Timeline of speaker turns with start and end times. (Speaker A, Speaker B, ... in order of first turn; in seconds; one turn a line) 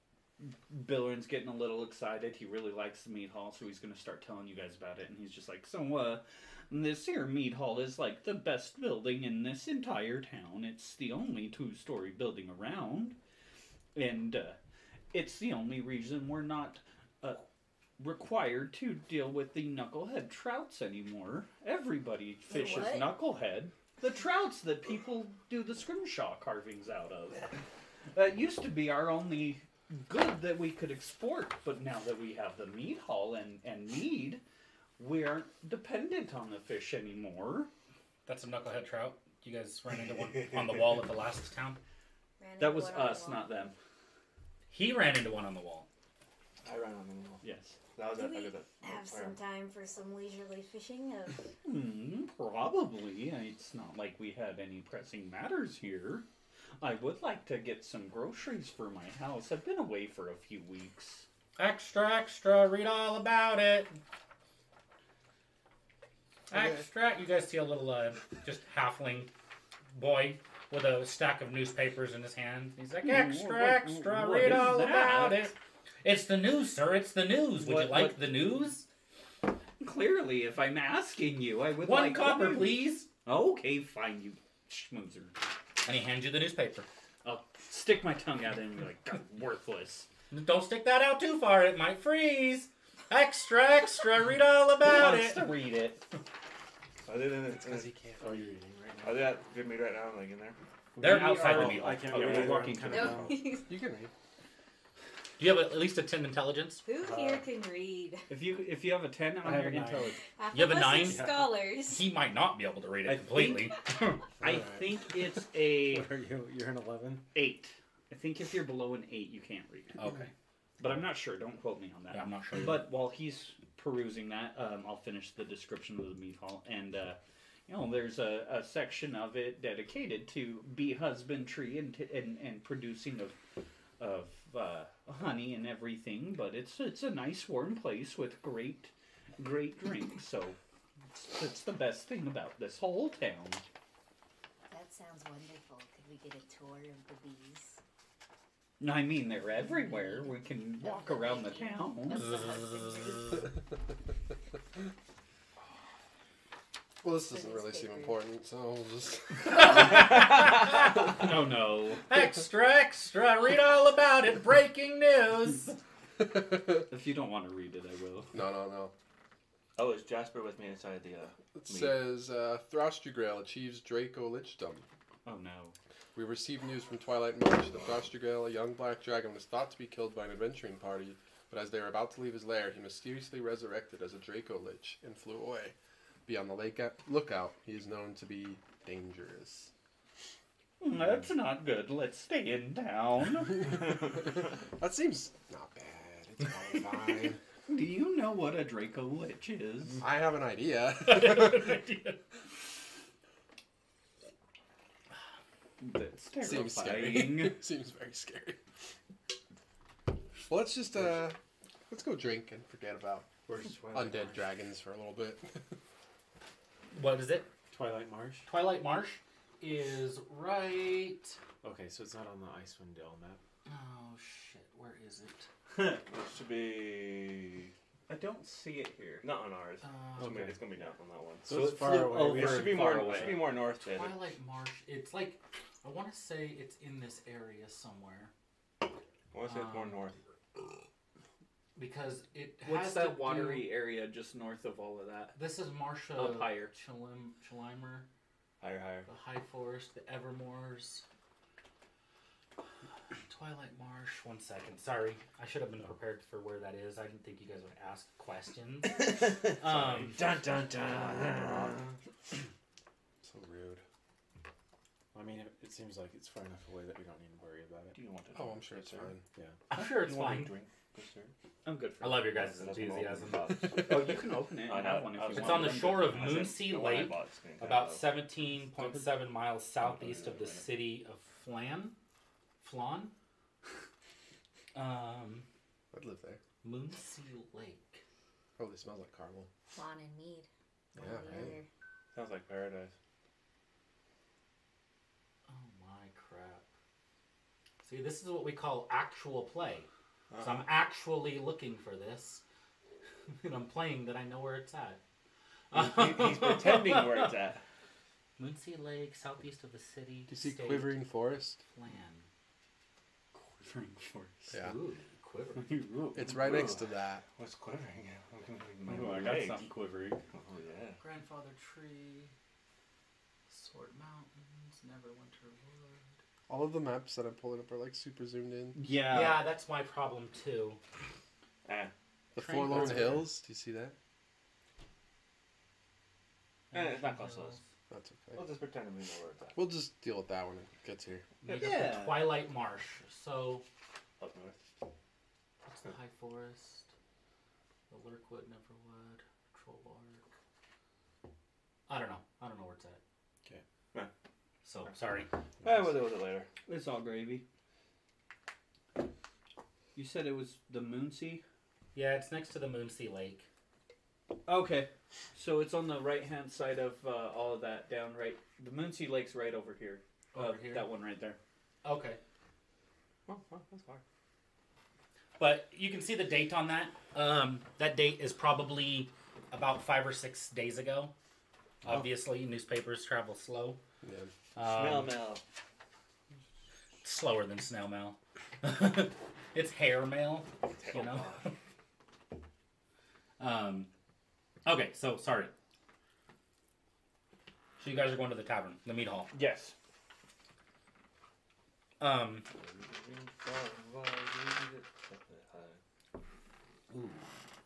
Speaker A: 0.4-13.2
Speaker A: 13.9-14.6
Speaker A: 15.1-17.4
Speaker A: 18.0-27.6
Speaker B: 22.5-23.1
Speaker A: 28.1-34.4
Speaker A: 35.0-37.7
Speaker C: 38.2-41.8
Speaker B: 42.4-43.7
Speaker A: 42.6-43.8
Speaker C: 44.7-45.9
Speaker D: 46.6-47.4
Speaker A: 47.4-47.8
Speaker D: 47.9-49.4
Speaker B: 48.1-51.5
Speaker A: 51.6-56.2
Speaker A: 56.8-61.3
Speaker C: 61.6-64.0
Speaker C: 66.5-69.3
Speaker E: 66.5-66.8
Speaker C: 69.9-78.8
Speaker A: 73.0-75.5
Speaker A: 77.6-78.3
Speaker A: 79.8-85.3
Speaker C: 81.8-83.1
Speaker C: 85.8-86.9
Speaker A: 87.2-90.1
Speaker C: 90.3-95.5
Speaker A: 94.8-96.0
Speaker D: 97.0-97.9
Speaker E: 97.7-98.2
Speaker F: 98.2-99.3
Speaker D: 99.0-100.6
Speaker F: 101.0-103.6
Speaker A: 101.0-103.3
Speaker C: 101.0-102.5
Speaker D: 102.1-102.7
Speaker B: 102.9-103.7
Speaker E: 103.7-104.1
Speaker C: 105.4-106.8
Speaker B: 106.8-108.3
Speaker F: 107.0-107.5
Speaker A: 108.3-110.2
Speaker F: 109.3-111.6
Speaker B: 110.3-112.1
Speaker C: 110.5-111.3
Speaker C: 111.8-114.3
Speaker A: 113.0-113.8
Speaker F: 114.4-114.8
Speaker A: 114.4-116.0
Speaker E: 114.4-114.7
Speaker F: 115.5-117.2
Speaker A: 117.3-120.0
Speaker C: 120.0-120.3
Speaker A: 120.8-133.4
Speaker C: 122.1-122.9
Speaker A: 134.0-140.6
Speaker A: 141.1-143.6
Speaker B: 144.7-147.8
Speaker A: 148.8-152.3
Speaker B: 149.7-153.5
Speaker C: 152.7-153.0
Speaker E: 157.0-159.9
Speaker B: 157.2-158.2
Speaker C: 159.5-161.2
Speaker A: 160.9-162.1
Speaker C: 162.0-165.8
Speaker E: 166.2-166.9
Speaker A: 166.9-168.4
Speaker E: 168.3-168.9
Speaker D: 169.8-172.1
Speaker E: 171.5-174.8
Speaker A: 175.2-175.7
Speaker E: 176.1-185.7
Speaker E: 186.2-189.7
Speaker A: 190.8-194.0
Speaker E: 194.1-197.4
Speaker A: 197.7-200.0
Speaker E: 200.0-201.9
Speaker C: 201.0-202.2
Speaker A: 205.8-207.6
Speaker E: 206.4-208.6
Speaker E: 210.4-211.4
Speaker E: 211.9-213.3
Speaker F: 213.4-214.5
Speaker E: 213.8-215.6
Speaker C: 216.9-217.5
Speaker F: 217.7-218.5
Speaker C: 218.4-221.4
Speaker F: 221.6-223.4
Speaker C: 223.7-225.5
Speaker D: 225.8-227.7
Speaker A: 228.1-229.2
Speaker D: 229.2-231.5
Speaker C: 229.8-230.5
Speaker F: 230.2-230.6
Speaker F: 231.4-233.3
Speaker A: 231.5-233.5
Speaker D: 232.2-234.2
Speaker C: 233.8-238.3
Speaker D: 239.3-240.2
Speaker C: 239.4-240.0
Speaker C: 241.8-243.7
Speaker A: 242.6-245.3
Speaker C: 245.3-248.1
Speaker A: 246.1-246.7
Speaker D: 248.6-249.1
Speaker C: 249.1-251.0
Speaker C: 253.3-260.2
Speaker D: 258.9-261.9
Speaker E: 263.3-263.8
Speaker F: 265.1-268.0
Speaker D: 267.9-269.1
Speaker E: 268.3-269.2
Speaker F: 269.3-269.6
Speaker C: 269.7-270.5
Speaker D: 269.7-271.3
Speaker A: 271.6-272.4
Speaker C: 272.0-273.7
Speaker D: 272.3-274.0
Speaker E: 273.5-274.1
Speaker A: 273.8-276.4
Speaker D: 274.6-278.2
Speaker C: 275.3-281.9
Speaker D: 279.8-280.7
Speaker C: 282.6-283.1
Speaker C: 284.7-285.5
Speaker E: 285.9-286.4
Speaker C: 286.6-288.0
Speaker E: 288.6-289.5
Speaker B: 289.7-291.7
Speaker E: 291.0-291.5
Speaker D: 292.1-292.9
Speaker C: 295.5-296.6
Speaker C: 297.8-299.9
Speaker D: 300.3-300.6
Speaker C: 300.4-302.4
Speaker C: 303.4-305.0
Speaker C: 305.7-307.3
Speaker D: 305.7-307.6
Speaker C: 308.4-311.1
Speaker E: 310.3-311.6
Speaker C: 311.7-312.2
Speaker A: 313.3-314.5
Speaker E: 314.5-314.8
Speaker C: 314.5-315.8
Speaker A: 315.6-316.4
Speaker E: 316.1-317.2
Speaker D: 316.3-319.7
Speaker A: 318.9-320.2
Speaker D: 320.3-321.0
Speaker C: 321.0-322.3
Speaker C: 323.5-326.1
Speaker E: 326.5-328.8
Speaker A: 328.7-329.5
Speaker C: 329.1-330.8
Speaker D: 331.6-331.9
Speaker E: 332.3-333.9
Speaker C: 332.4-333.3
Speaker D: 336.7-337.6
Speaker C: 336.7-337.6
Speaker E: 337.9-338.4
Speaker D: 338.3-339.6
Speaker E: 339.5-341.3
Speaker C: 341.4-343.6
Speaker A: 341.5-342.4
Speaker D: 344.2-344.6
Speaker C: 345.6-346.9
Speaker C: 347.9-350.2
Speaker C: 351.9-353.0
Speaker C: 354.6-355.3
Speaker D: 355.6-356.5
Speaker A: 356.6-357.4
Speaker A: 359.9-361.4
Speaker C: 361.9-363.5
Speaker A: 364.4-371.4
Speaker C: 370.3-370.9
Speaker C: 371.8-372.2
Speaker D: 373.3-374.0
Speaker C: 375.4-381.1
Speaker C: 381.8-383.8
Speaker E: 384.0-384.3
Speaker C: 384.5-385.2
Speaker D: 384.6-385.4
Speaker C: 387.0-391.3
Speaker D: 390.7-391.5
Speaker C: 393.4-393.9
Speaker C: 394.6-395.5
Speaker C: 397.8-399.3
Speaker A: 399.3-399.7
Speaker C: 402.0-402.5
Speaker D: 402.6-405.8